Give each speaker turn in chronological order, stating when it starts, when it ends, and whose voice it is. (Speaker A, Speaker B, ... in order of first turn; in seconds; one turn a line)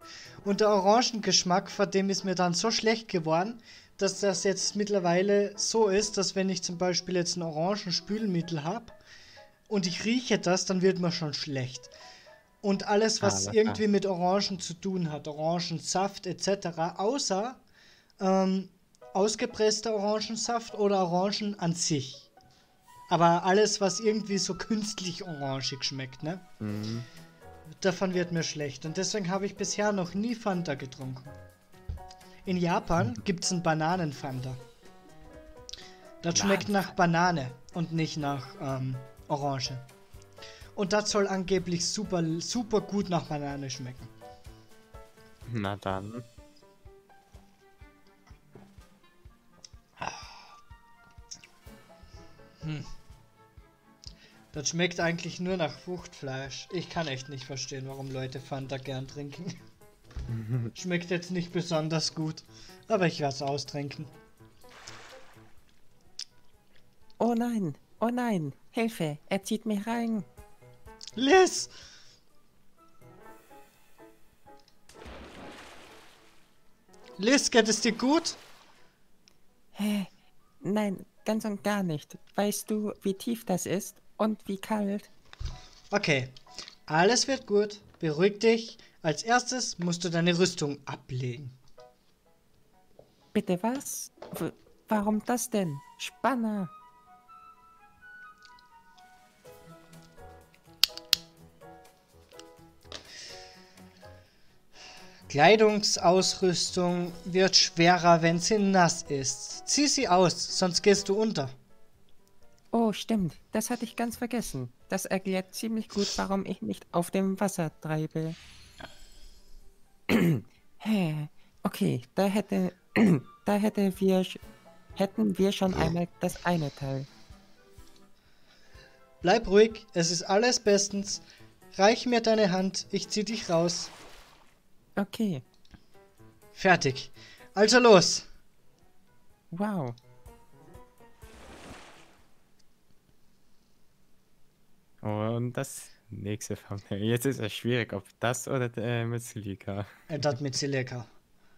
Speaker A: 0.4-9.0
Speaker A: 9.7-11.9
Speaker A: 12.6-17.6
Speaker B: 13.2-13.8
Speaker A: 18.2-22.3
Speaker A: 23.1-26.4
Speaker B: 26.6-27.1
Speaker A: 27.8-31.3
Speaker A: 32.4-34.6
Speaker A: 36.2-39.9
Speaker B: 36.3-36.7
Speaker A: 40.7-44.1
Speaker B: 45.4-46.3
Speaker A: 50.0-50.3
Speaker A: 52.6-52.9
Speaker A: 54.5-59.6
Speaker B: 60.3-60.7
Speaker A: 60.7-64.1
Speaker C: 67.2-70.3
Speaker A: 71.2-71.7
Speaker A: 77.2-78.4
Speaker C: 79.7-85.1
Speaker A: 85.9-86.3
Speaker A: 86.9-91.5
Speaker C: 93.3-96.7
Speaker A: 105.3-111.5
Speaker C: 112.7-118.4
Speaker C: 120.1-124.4
Speaker C: 125.0-127.1
Speaker A: 129.2-131.2
Speaker A: 131.7-133.9
Speaker C: 134.9-135.4
Speaker A: 136.5-138.3
Speaker C: 139.5-140.0
Speaker B: 145.0-150.1
Speaker A: 150.1-151.1